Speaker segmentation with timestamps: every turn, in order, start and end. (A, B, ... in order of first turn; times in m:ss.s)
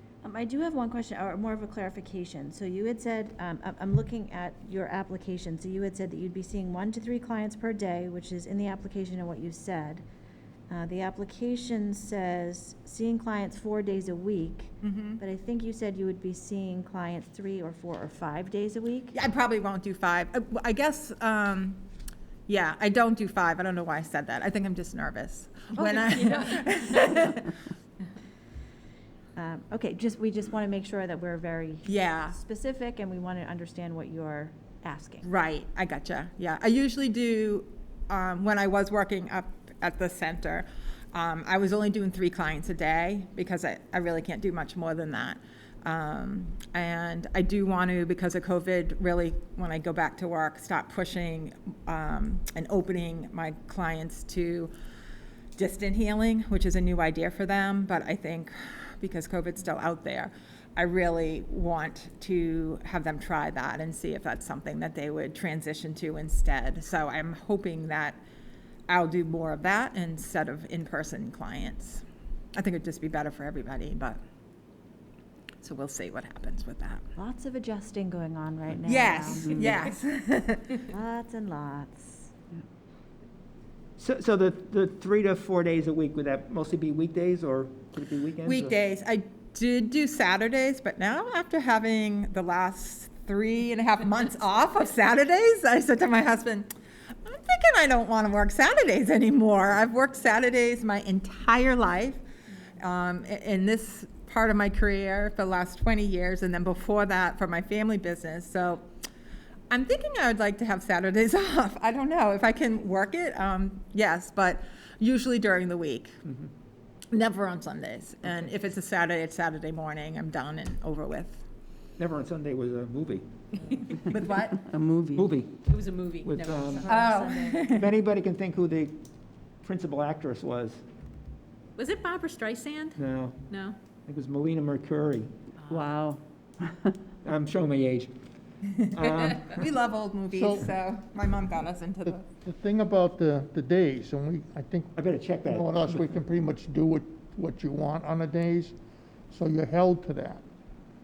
0:00.2-0:10.0 A
0:10.7-0:19.1 A
0:14.8-0:15.2 B
0:19.1-0:21.8 B
0:22.5-0:27.6 B
0:25.8-0:26.5 C
0:29.4-0:35.3 A
0:31.8-0:32.4 B
0:35.2-0:54.7 B
0:55.6-1:08.2 B
1:08.9-1:14.2 B
1:15.6-1:17.0 B
1:17.2-1:19.6 A
1:18.8-1:20.9 B
1:19.4-1:19.8 D
1:20.9-1:22.3 A
1:24.0-1:28.5 E
1:28.4-1:36.7 B
1:37.2-1:42.2 B
1:42.8-1:48.8 B
1:49.7-1:56.1 B
1:57.1-2:01.4 B
2:02.0-2:03.2 E
2:03.6-2:04.6 B
2:04.6-2:05.3 D
2:05.1-2:05.6 E
2:05.7-2:07.0 C
2:06.2-2:09.0 E
2:06.8-2:07.8 B
2:06.9-2:07.6 A
2:09.6-2:10.8 E
2:11.8-2:13.8 C
2:13.0-2:13.4 E
2:14.0-2:15.3 E
2:15.6-2:15.9 A
2:15.7-2:17.0 D
2:17.2-2:18.1 E
2:18.7-2:22.2 B
2:19.0-2:19.4 E
2:20.3-2:20.7 F
2:22.0-2:28.7 F
2:25.0-2:25.8 E
2:29.3-2:30.4 F